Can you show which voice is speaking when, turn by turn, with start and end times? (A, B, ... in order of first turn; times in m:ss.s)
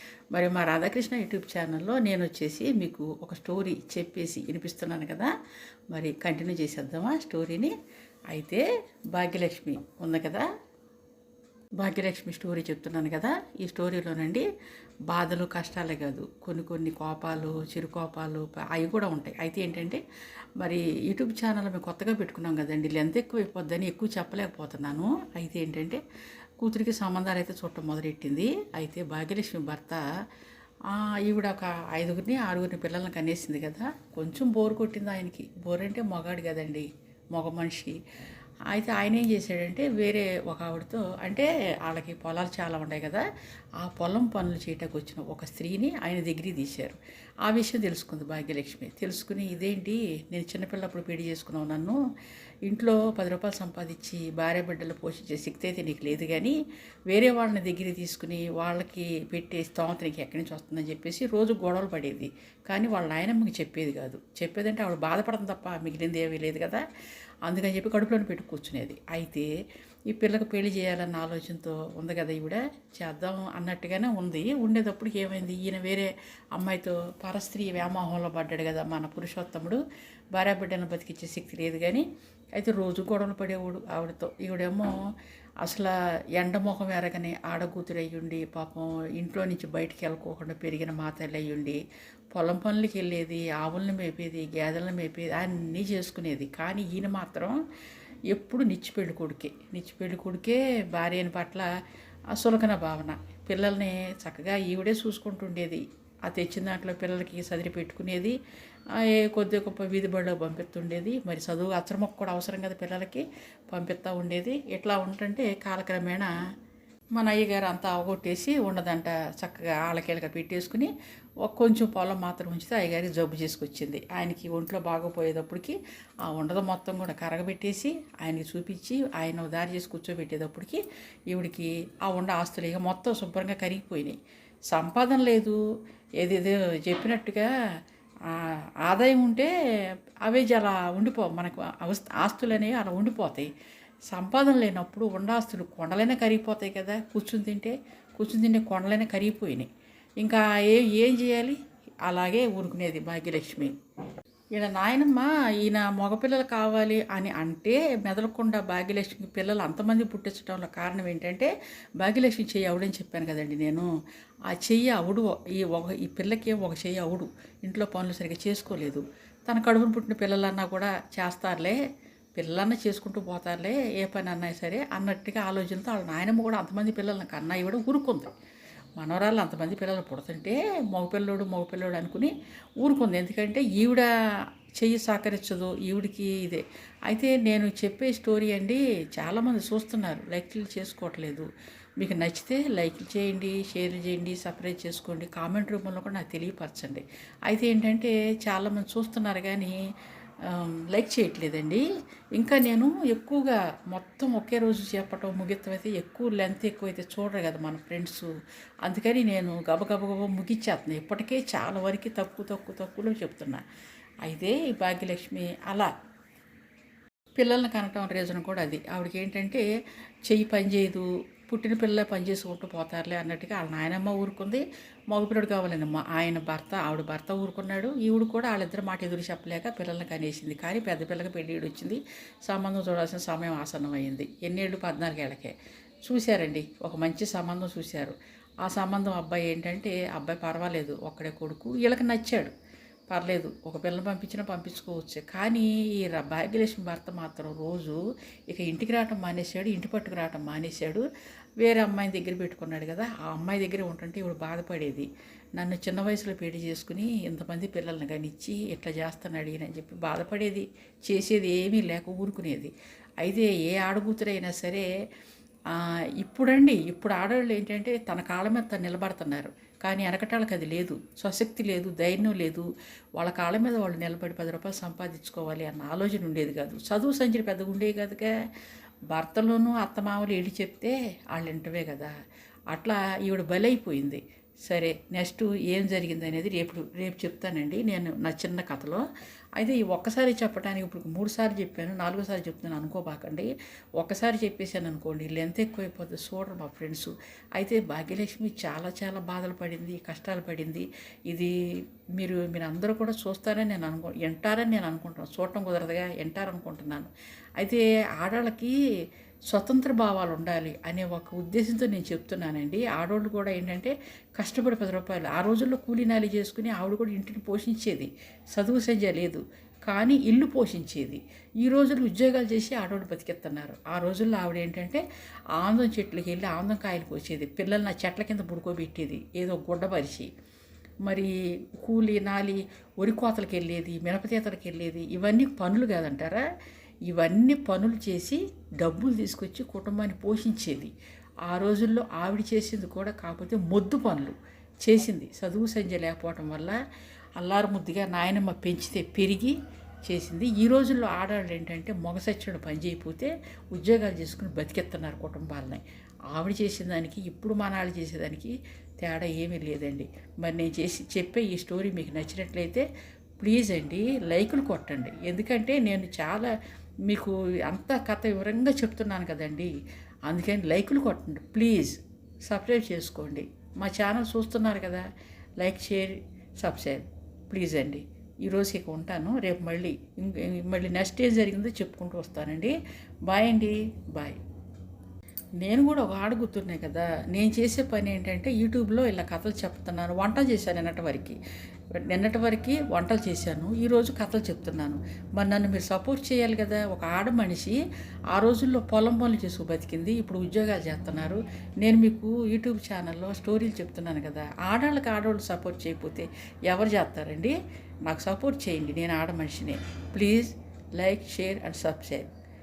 0:00.3-0:05.3 A
0:05.9-0:07.7 A
0:08.3-0:10.5 A
0:11.8-0:14.5 A
0:15.1-0:20.0 A
0:20.6-0:26.0 A
0:26.6-0:30.0 A
0:30.9-0:38.0 A
0:38.7-0:43.3 A
0:43.8-0:52.0 A
0:52.7-0:56.6 A
0:57.1-1:06.8 A
1:07.4-1:09.5 A
1:10.1-1:19.8 A
1:20.3-1:25.0 A
1:25.6-1:31.8 A
1:32.3-1:37.6 A
1:38.3-1:41.7 A
1:42.3-1:48.4 A
1:48.9-1:56.3 A
1:57.2-2:14.2 A
2:14.7-2:15.6 A
2:16.2-2:17.5 A
2:18.3-2:19.5 A
2:20.2-2:23.5 A
2:24.1-2:29.7 A
2:30.2-2:33.8 A
2:34.6-2:43.9 A
2:44.5-2:51.8 A
2:52.4-2:58.3 A
2:59.0-3:04.1 A
3:04.8-3:19.8 A
3:20.4-3:21.8 A
3:22.4-3:28.3 A
3:28.8-3:33.6 A
3:34.2-3:35.9 A
3:37.4-3:39.6 A
3:40.3-4:02.5 A
4:03.1-4:11.0 A
4:11.6-4:24.9 A
4:25.7-4:38.3 A
4:39.1-4:42.1 A
4:42.7-4:49.0 A
4:49.6-5:01.5 A
5:02.2-5:08.8 A
5:09.5-5:25.0 A
5:25.6-5:30.3 A
5:31.0-5:36.4 A
5:37.1-5:40.9 A
5:41.5-5:46.8 A
5:47.4-6:02.8 A
6:03.4-6:06.5 A
6:07.1-6:09.7 A
6:10.3-6:15.0 A
6:15.6-6:22.8 A
6:23.3-6:24.4 A
6:25.6-6:31.4 A
6:32.0-6:37.8 A
6:38.3-6:52.3 A